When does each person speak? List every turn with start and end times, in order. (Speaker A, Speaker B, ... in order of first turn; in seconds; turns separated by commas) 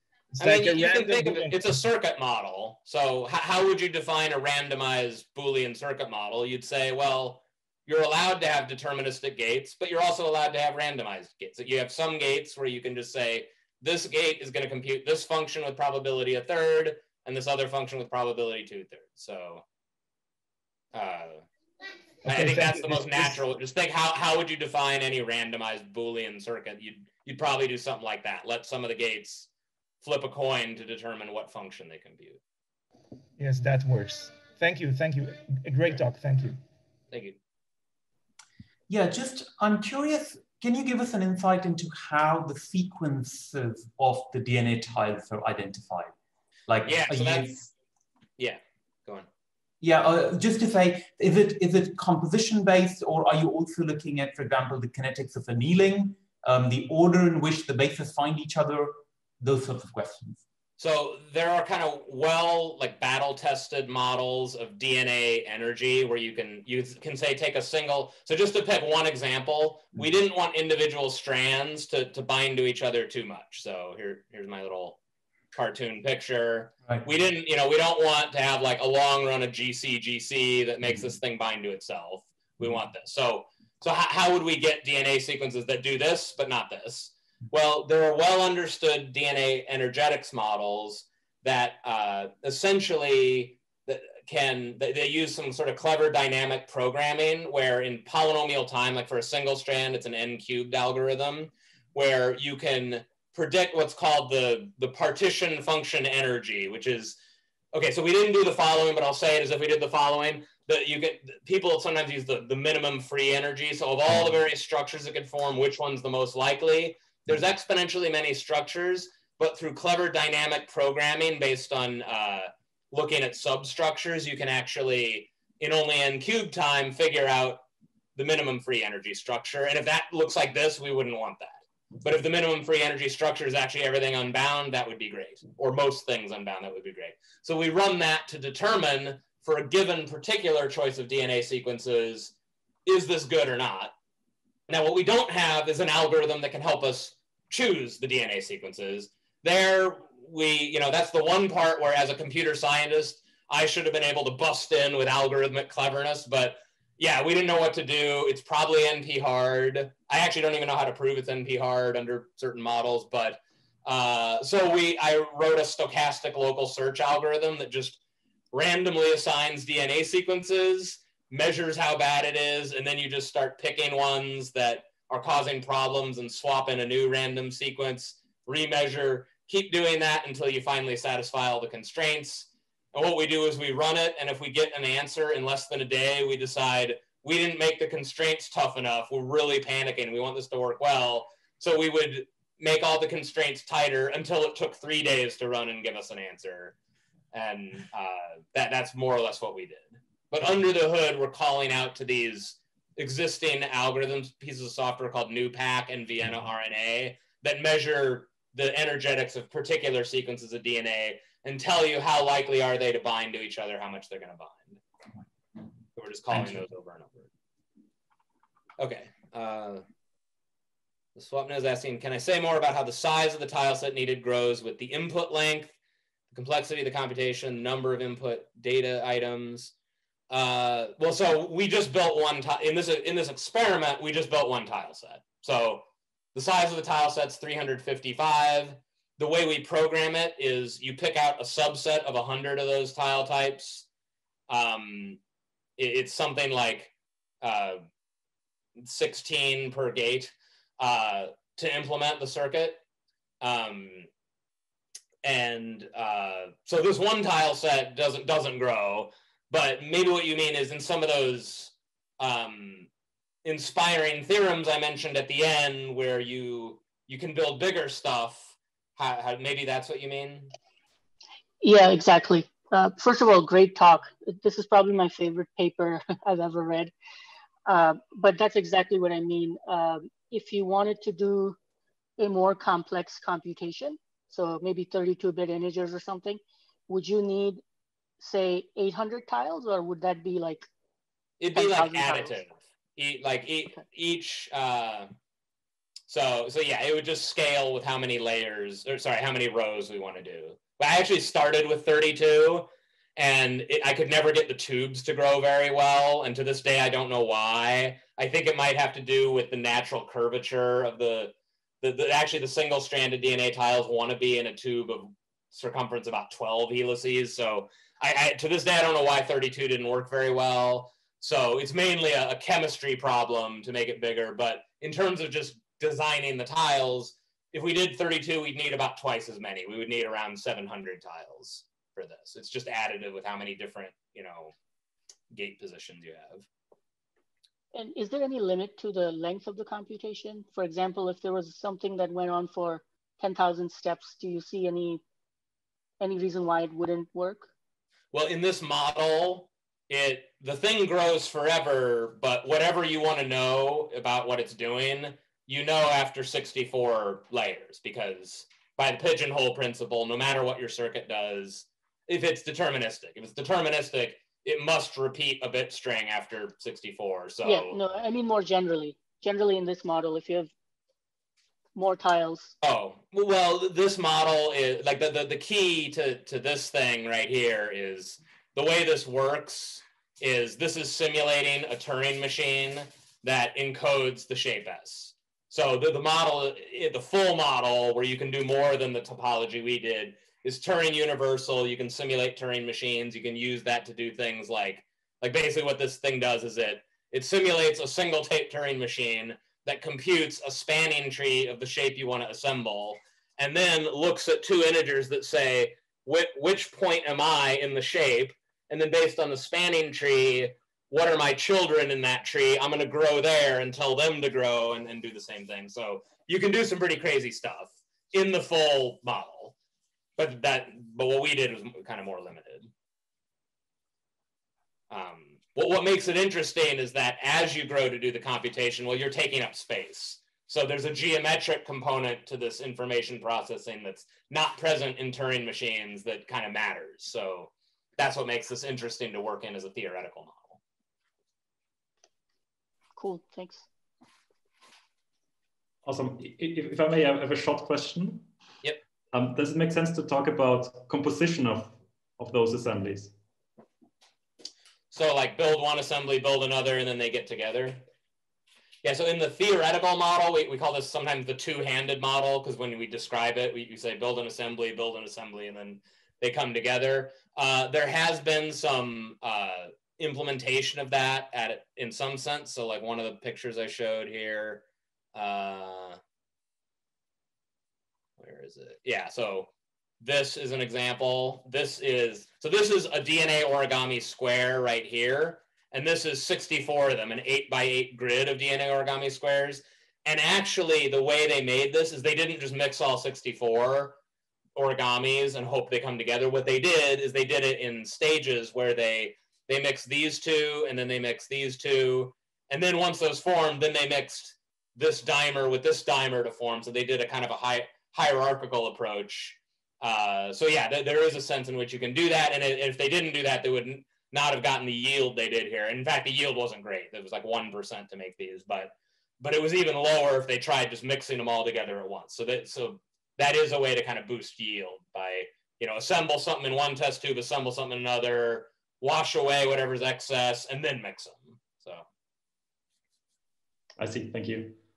Speaker A: 0.4-19.6, Speaker B: 0.4-1.7, Speaker A: 20.9-21.5, Speaker B: 22.3-23.4, Speaker A: 22.3-29.5, Speaker A: 30.0-32.4, Speaker B: 33.4-36.6, Speaker A: 37.1-37.4, Speaker C: 38.9-46.1, Speaker C: 46.7-47.7, Speaker A: 46.9-47.5, Speaker A: 48.4-49.3, Speaker C: 49.8-60.4, Speaker A: 60.8-75.0, Speaker A: 75.5-107.2, Speaker A: 107.7-127.6, Speaker A: 128.2-142.3, Speaker A: 142.9-143.9, Speaker A: 144.7-168.0, Speaker A: 168.5-196.8, Speaker A: 197.3-214.8, Speaker A: 215.9-217.3, Speaker A: 218.8-219.8, Speaker A: 221.2-225.8, Speaker A: 226.3-229.7, Speaker A: 230.3-243.9, Speaker A: 244.5-245.2, Speaker A: 245.8-247.8, Speaker A: 248.8-252.8, Speaker A: 253.4-254.1, Speaker A: 255.2-262.9, Speaker A: 263.4-270.5, Speaker D: 271.6-276.9, Speaker D: 277.7-281.6, Speaker D: 282.2-287.6, Speaker D: 288.2-290.7, Speaker A: 291.4-295.1, Speaker D: 291.6-292.4, Speaker A: 296.1-334.5, Speaker A: 335.3-336.5, Speaker D: 337.7-345.0, Speaker D: 346.0-347.5, Speaker A: 348.1-367.8, Speaker D: 367.4-370.5, Speaker D: 371.8-372.6, Speaker A: 372.6-419.5, Speaker A: 420.2-422.7, Speaker A: 424.9-440.6, Speaker D: 443.0-443.7, Speaker E: 445.9-448.3, Speaker E: 449.1-453.1, Speaker A: 454.9-457.8, Speaker A: 458.8-476.0, Speaker A: 478.2-479.5, Speaker A: 480.0-494.0, Speaker A: 494.6-531.9, Speaker E: 533.8-534.6